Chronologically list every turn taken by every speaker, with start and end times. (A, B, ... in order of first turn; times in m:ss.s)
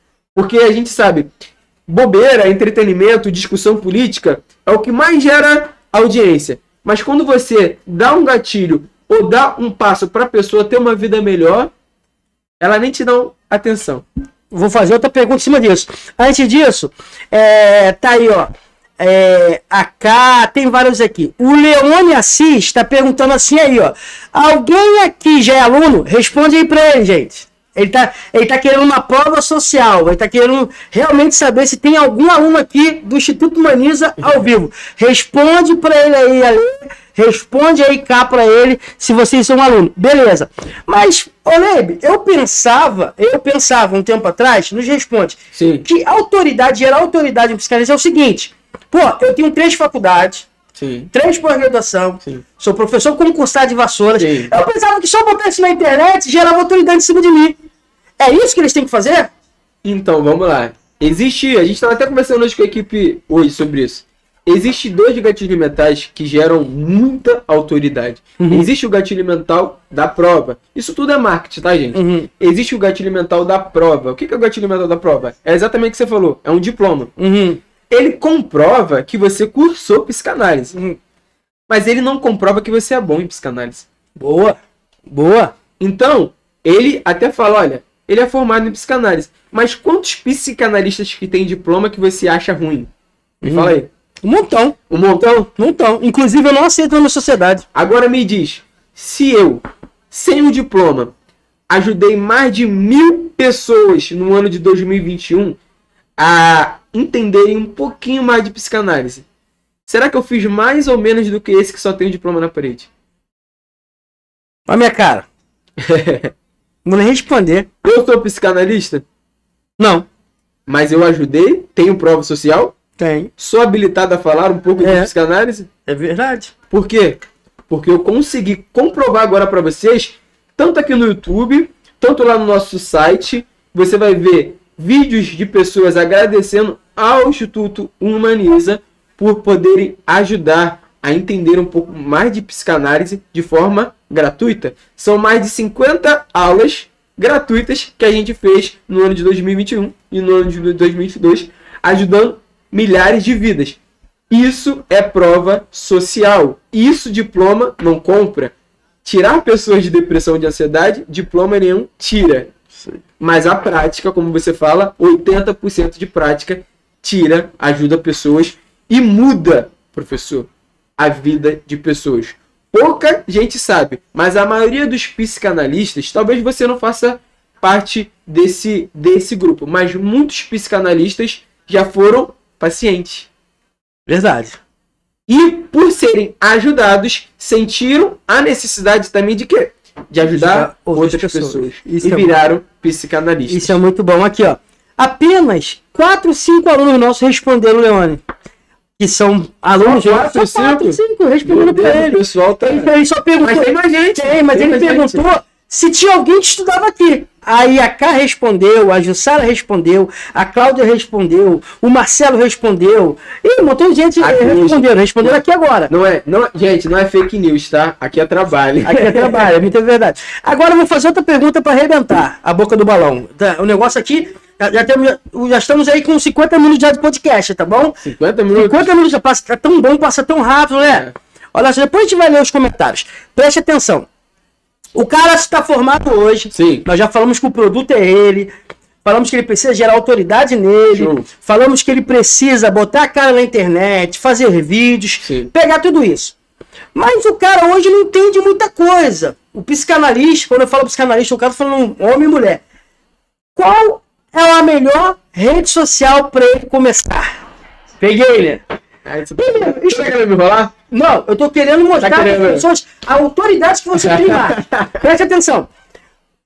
0:00.4-0:01.3 A
0:01.9-0:11.7 A
0:12.6-0:14.0 A
0:14.5-0:50.5 B
0:45.5-0:45.8 A
0:50.8-0:51.1 A
0:51.1-0:57.6 B
0:54.2-0:54.5 A
0:58.2-0:59.3 B
0:59.8-1:17.1 A
1:08.4-1:08.7 B
1:11.9-1:12.3 B
1:17.2-1:17.6 B
1:17.9-1:20.8 A
1:21.7-1:23.9 A
1:24.2-1:24.6 B
1:25.1-1:25.5 B
1:25.8-1:32.9 A
1:33.4-1:33.9 A
1:33.4-1:34.8 B
1:34.9-1:35.5 A
1:35.5-1:37.6 B
1:37.7-1:41.1 A
1:41.7-1:45.6 A
1:46.2-1:49.2 A
1:49.9-1:52.9 A
1:54.7-1:55.3 B
1:55.8-1:56.3 A
1:56.8-1:57.7 B
1:57.8-1:59.0 A
1:59.8-2:00.1 B
2:00.7-2:02.8 A
2:03.0-2:03.3 B
2:03.4-2:05.7 A
2:04.8-2:05.1 B
2:05.9-2:06.5 B
2:06.7-2:33.8 A
2:34.3-2:38.5 A
2:39.0-2:42.5 A
2:43.2-3:03.3 A
3:04.1-3:04.6 B
3:05.3-3:13.8 A
3:10.3-3:12.4 B
3:13.5-3:18.2 B
3:19.0-3:35.9 B
3:19.8-3:25.2 A
3:34.2-3:35.4 A
3:35.9-3:39.5 A
3:38.9-3:48.0 B
3:48.0-3:48.9 A
3:48.5-3:54.1 B
3:50.8-3:51.1 A
3:55.0-3:58.5 B
3:56.5-3:56.8 A
3:59.0-4:06.4 B
4:00.9-4:01.3 A
4:05.2-4:05.5 A
4:07.0-4:12.6 B
4:13.6-4:17.3 B
4:18.0-4:18.6 B
4:19.0-4:20.7 A
4:19.4-4:20.1 B
4:20.9-4:25.7 B
4:22.0-4:22.7 A
4:24.0-4:25.0 A